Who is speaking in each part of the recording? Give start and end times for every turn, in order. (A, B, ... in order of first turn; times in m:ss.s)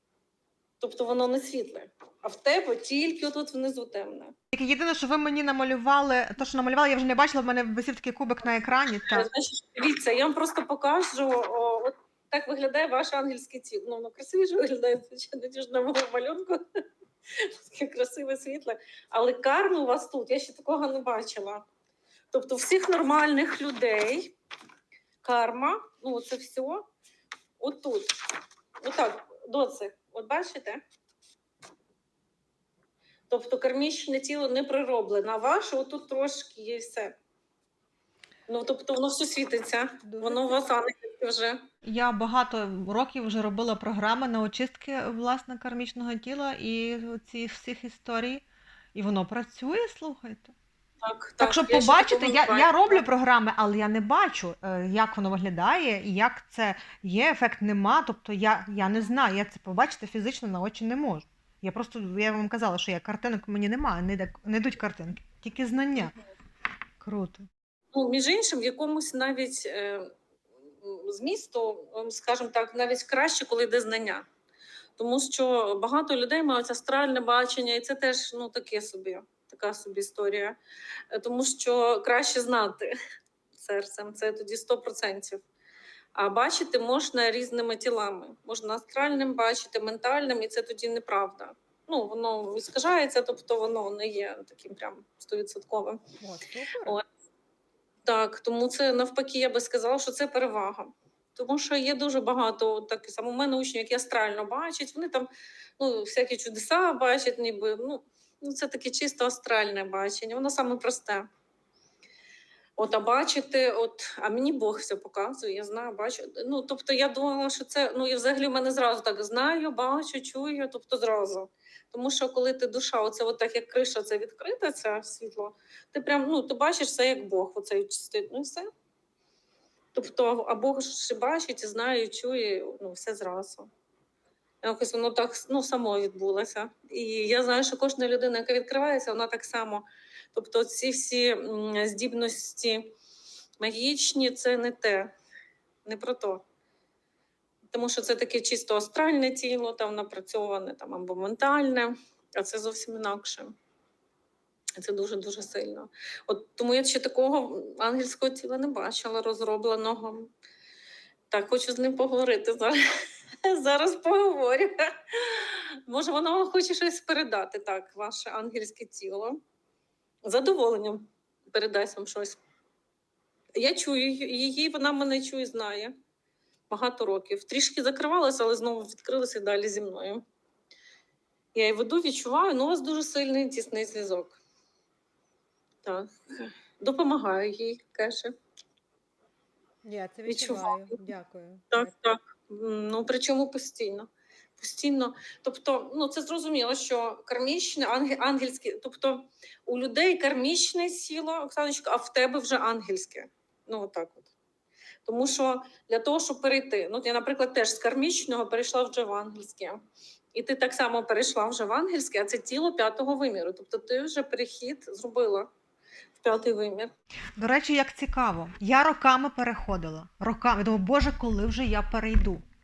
0:00.8-0:04.4 A
0:04.5-0:09.3 B
0:09.1-0:21.6 A
0:22.3-0:24.3 A
0:25.2-0:26.9 A
0:27.6-0:28.1 A
0:28.8-0:30.8 A
0:33.3-0:37.2 A
0:38.5-0:41.6 A
0:40.0-0:40.6 B
0:41.8-0:50.5 B
0:51.0-0:53.0 A
0:51.4-1:06.1 B
1:07.0-1:07.5 B
1:07.9-1:10.1 A
1:10.7-1:14.2 A
1:15.0-1:20.6 A
1:21.1-1:22.9 A
1:23.6-1:25.4 A
1:26.1-1:36.0 A
1:36.2-1:37.0 B
1:38.0-1:51.3 A
1:52.8-2:08.7 A
2:09.9-2:13.7 A
2:14.6-2:22.9 A
2:23.6-2:25.1 A
2:25.8-2:26.4 A
2:27.7-2:33.5 A
2:34.8-2:40.3 A
2:41.3-2:42.8 A
2:43.4-2:49.4 A
2:50.2-2:52.4 A
2:53.5-2:55.9 A
2:56.7-3:00.2 A
3:01.5-3:04.4 A
3:05.8-3:08.4 A
3:09.8-3:11.9 B
3:10.2-3:11.0 A
3:11.7-3:14.1 A
3:14.6-3:24.3 A
3:25.0-3:29.8 A
3:30.3-3:35.5 A
3:36.2-3:36.9 A
3:37.4-3:42.4 B